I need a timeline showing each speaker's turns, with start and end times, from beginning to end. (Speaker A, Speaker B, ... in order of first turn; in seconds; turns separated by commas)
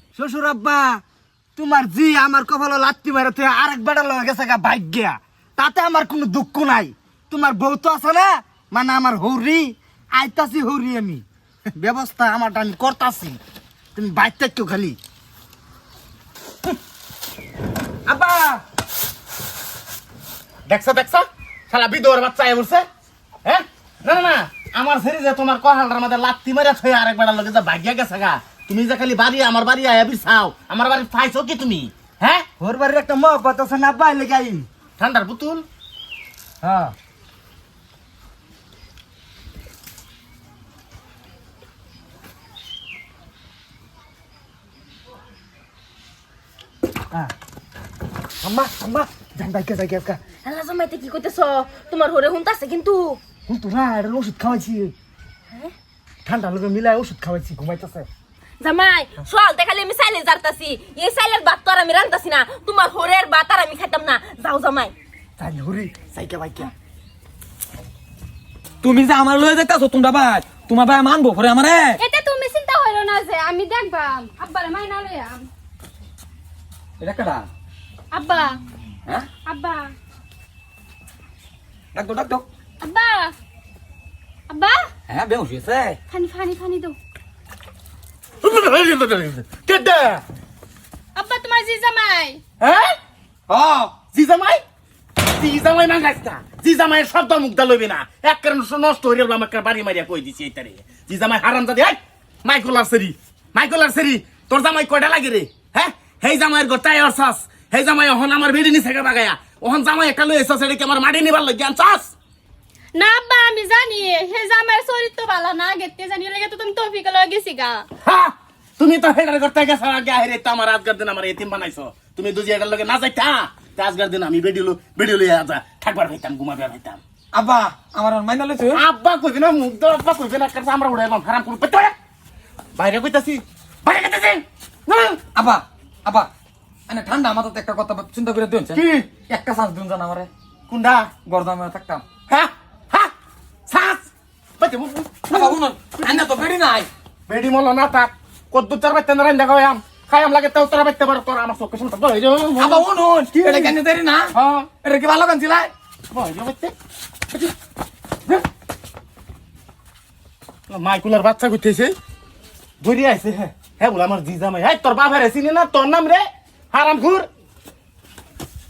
Speaker A: 0.1-1.0, Speaker A: 1.6-11.2, Speaker A: 11.8-13.4, Speaker A: 13.9-15.0, Speaker A: 18.1-18.6, Speaker B: 20.7-22.9, Speaker B: 23.4-32.5, Speaker A: 32.6-34.7, Speaker B: 35.0-35.6, Speaker A: 36.6-36.9, Speaker A: 48.4-50.2, Speaker C: 50.4-53.2, Speaker A: 53.5-54.9, Speaker A: 56.2-58.1, Speaker C: 58.6-64.9, Speaker A: 65.4-66.7, Speaker D: 68.8-72.0, Speaker E: 72.0-75.5, Speaker D: 77.0-77.5, Speaker E: 78.1-78.6, Speaker E: 79.5-79.9, Speaker D: 81.9-82.5, Speaker E: 82.8-83.3, Speaker E: 84.5-84.9, Speaker D: 85.1-86.0, Speaker E: 86.1-87.0, Speaker B: 88.4-90.2, Speaker E: 91.2-92.4, Speaker B: 92.6-92.9, Speaker D: 93.5-94.0, Speaker B: 94.1-94.6, Speaker B: 95.3-112.1, Speaker E: 113.0-117.8, Speaker B: 118.0-127.0, Speaker D: 127.3-128.8, Speaker B: 128.7-131.9, Speaker B: 132.8-135.2, Speaker D: 135.3-136.3, Speaker D: 136.9-140.3, Speaker B: 138.7-139.1, Speaker B: 140.7-141.1, Speaker D: 141.2-142.1, Speaker B: 142.3-143.1, Speaker B: 143.7-146.2, Speaker D: 145.3-146.9, Speaker B: 147.3-152.9, Speaker D: 152.6-154.3, Speaker B: 153.4-153.8, Speaker B: 154.3-154.7, Speaker D: 154.8-155.7, Speaker B: 156.1-156.7, Speaker B: 160.7-161.9, Speaker B: 162.8-167.3